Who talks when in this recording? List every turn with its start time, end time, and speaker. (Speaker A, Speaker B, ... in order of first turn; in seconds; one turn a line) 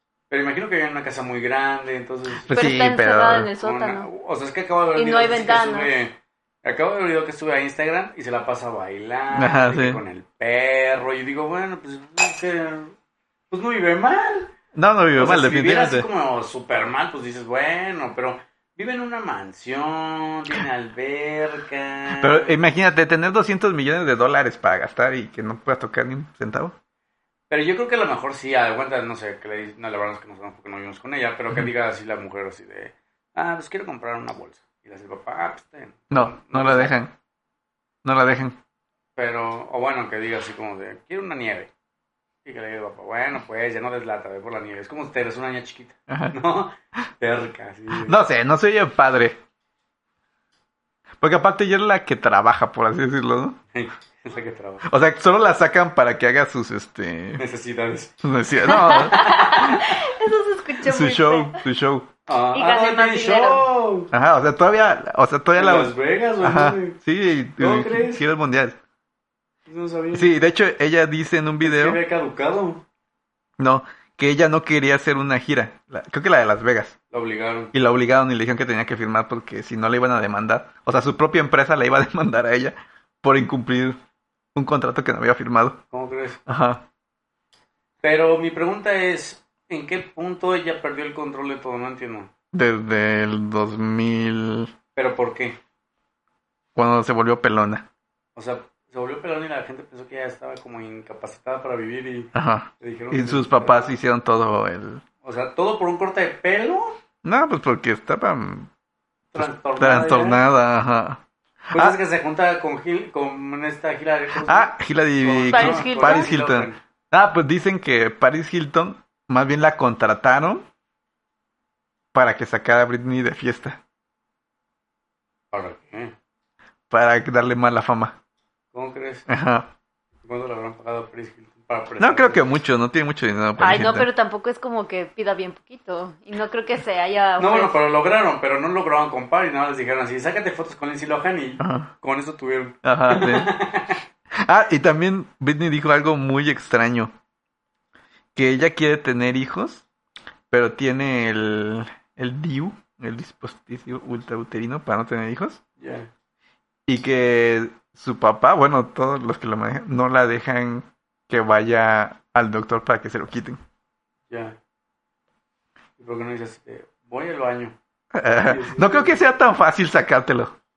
Speaker A: 0.3-2.5
Speaker B: 2.4-3.5
Speaker C: 2.5-4.1
Speaker A: 3.6-12.9
Speaker C: 5.0-5.9
Speaker B: 9.3-10.0
Speaker A: 13.5-14.5
Speaker B: 14.7-16.1
Speaker A: 15.1-22.5
Speaker B: 22.1-26.7
Speaker A: 27.5-36.9
Speaker B: 36.1-37.1
Speaker B: 38.0-38.6
Speaker A: 39.1-41.7
Speaker A: 42.4-48.2
Speaker B: 46.1-46.3
Speaker B: 47.9-49.4
Speaker B: 51.2-53.6
Speaker A: 53.7-54.8
Speaker B: 54.9-57.4
Speaker A: 57.4-58.2
Speaker B: 58.2-59.8
Speaker C: 58.6-61.6
Speaker A: 59.1-59.8
Speaker B: 60.8-62.1
Speaker A: 62.3-64.1
Speaker C: 62.5-63.6
Speaker B: 64.1-68.8
Speaker A: 65.5-67.0
Speaker A: 67.6-68.2
Speaker A: 69.7-70.3
Speaker B: 70.1-72.0
Speaker A: 71.6-72.8
Speaker B: 73.6-76.9
Speaker A: 77.1-77.7
Speaker B: 77.7-84.0
Speaker B: 84.5-85.8
Speaker A: 85.9-86.4
Speaker B: 86.5-86.8
Speaker A: 88.0-92.3
Speaker B: 92.5-94.7
Speaker A: 94.9-95.6
Speaker B: 96.8-97.9
Speaker A: 98.3-103.9
Speaker B: 102.3-105.0
Speaker A: 105.2-107.0
Speaker B: 107.2-108.7
Speaker A: 109.3-110.4
Speaker B: 109.4-111.2
Speaker A: 111.7-116.8
Speaker B: 114.4-120.7
Speaker C: 115.5-116.3
Speaker B: 122.1-123.8
Speaker A: 125.5-126.1
Speaker B: 126.9-128.1
Speaker A: 128.7-129.3
Speaker B: 129.3-129.7
Speaker A: 130.2-132.4
Speaker B: 132.0-134.1
Speaker C: 133.6-137.8
Speaker A: 137.4-144.0
Speaker B: 141.6-141.9
Speaker B: 142.8-143.5
Speaker B: 144.3-147.1
Speaker B: 148.3-149.8
Speaker B: 150.5-155.6
Speaker A: 155.8-156.1
Speaker B: 156.9-163.6
Speaker A: 164.3-164.6
Speaker A: 166.0-167.8
Speaker B: 168.1-170.5
Speaker A: 168.4-169.2